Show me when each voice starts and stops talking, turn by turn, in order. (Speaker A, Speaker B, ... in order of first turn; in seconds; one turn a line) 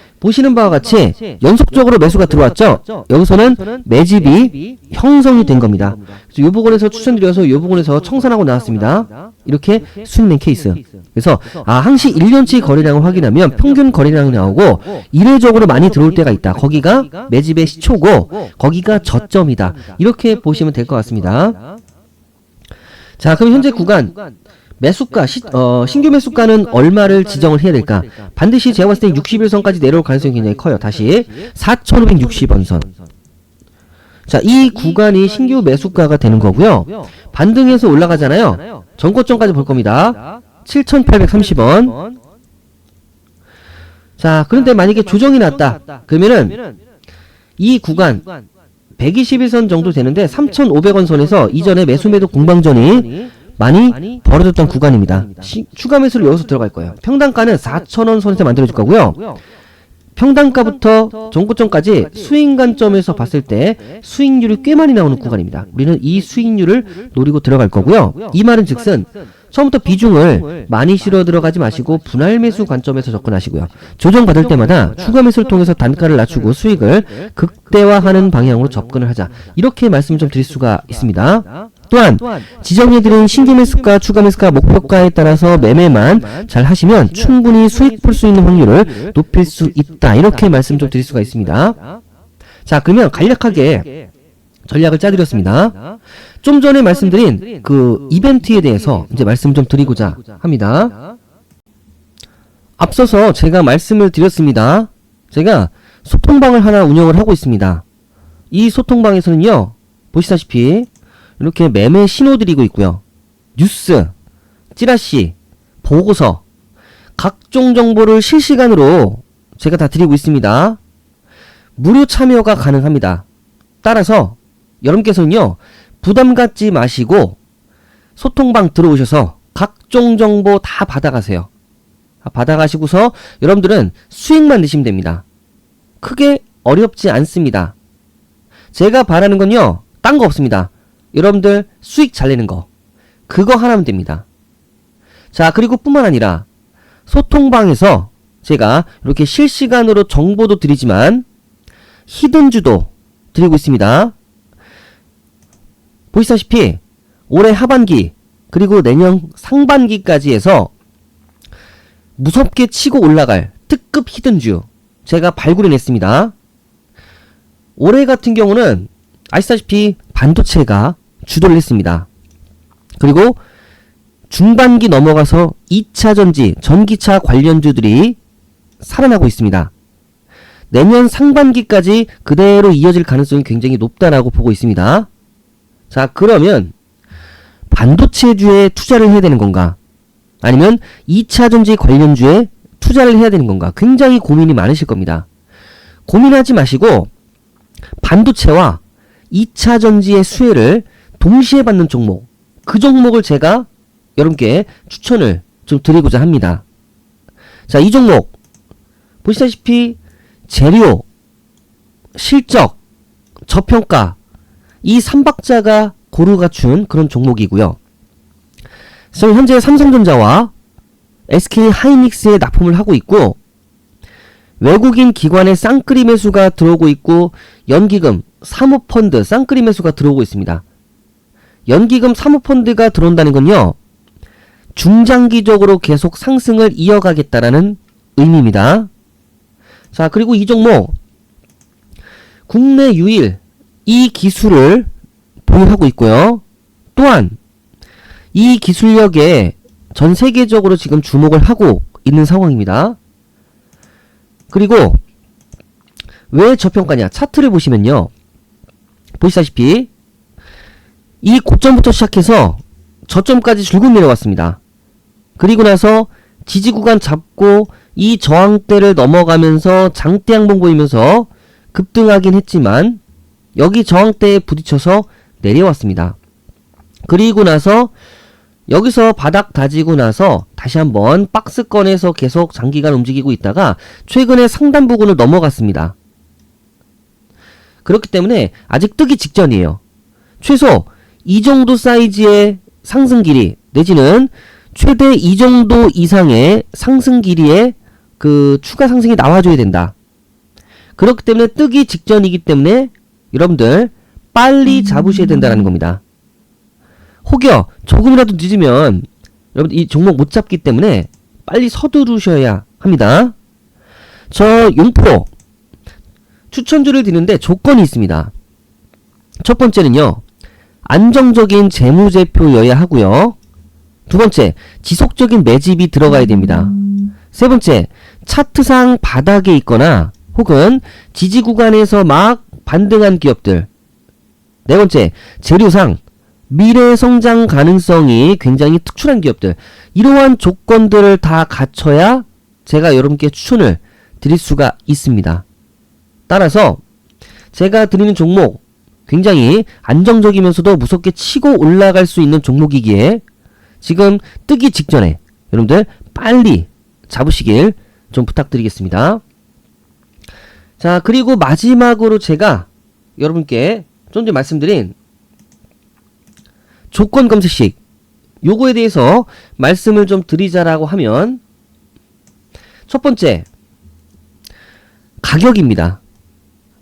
Speaker A: 0.2-21.6
Speaker A: 23.2-24.1
Speaker A: 24.8-32.9
Speaker A: 34.3-42.0
Speaker A: 44.2-46.6
Speaker A: 47.6-48.2
Speaker A: 49.0-59.2
Speaker A: 60.2-91.8
Speaker A: 92.7-93.9
Speaker A: 94.7-95.8
Speaker A: 96.4-101.0
Speaker A: 102.8-107.8
Speaker A: 108.5-110.9
Speaker A: 111.4-113.0
Speaker A: 113.6-114.1
Speaker A: 114.7-116.4
Speaker A: 117.2-120.8
Speaker A: 121.8-123.3
Speaker A: 123.8-127.4
Speaker A: 128.2-131.5
Speaker A: 132.2-135.2
Speaker A: 136.0-137.8
Speaker A: 138.7-142.7
Speaker A: 143.3-144.2
Speaker A: 145.3-146.5
Speaker A: 147.1-151.3
Speaker A: 152.1-154.2
Speaker A: 156.1-160.7
Speaker A: 162.2-166.3
Speaker A: 167.8-172.1
Speaker A: 173.0-173.4
Speaker A: 174.3-178.2
Speaker A: 178.8-179.7
Speaker A: 180.7-185.1
Speaker A: 185.9-186.7
Speaker A: 187.7-189.8
Speaker A: 190.4-195.3
Speaker A: 196.1-197.1
Speaker A: 198.0-206.6
Speaker A: 207.7-208.3
Speaker A: 209.2-211.1
Speaker A: 212.2-212.8
Speaker A: 213.5-214.2
Speaker A: 214.8-217.8
Speaker A: 219.1-220.5
Speaker A: 221.3-223.4
Speaker A: 224.6-230.6
Speaker A: 231.7-233.8
Speaker A: 234.8-238.9
Speaker A: 239.9-240.9
Speaker A: 242.5-244.9
Speaker A: 245.5-246.4
Speaker A: 247.0-247.4
Speaker A: 248.3-253.0
Speaker A: 254.5-255.0
Speaker A: 256.3-258.1
Speaker A: 259.2-259.9
Speaker A: 261.2-264.6
Speaker A: 265.4-273.0
Speaker A: 273.6-276.2
Speaker A: 277.1-277.9
Speaker A: 278.7-285.9
Speaker A: 287.9-289.8
Speaker A: 290.4-299.9
Speaker A: 301.0-306.0
Speaker A: 307.2-313.4
Speaker A: 314.3-315.3
Speaker A: 316.5-318.3
Speaker A: 319.4-320.2
Speaker A: 320.9-323.4
Speaker A: 324.1-326.8
Speaker A: 327.3-333.7
Speaker A: 334.7-345.4
Speaker A: 346.3-346.8
Speaker A: 347.5-353.2
Speaker A: 353.8-359.2
Speaker A: 360.8-364.9
Speaker A: 366.9-367.8
Speaker A: 368.4-371.4
Speaker A: 372.9-373.5
Speaker A: 375.2-376.0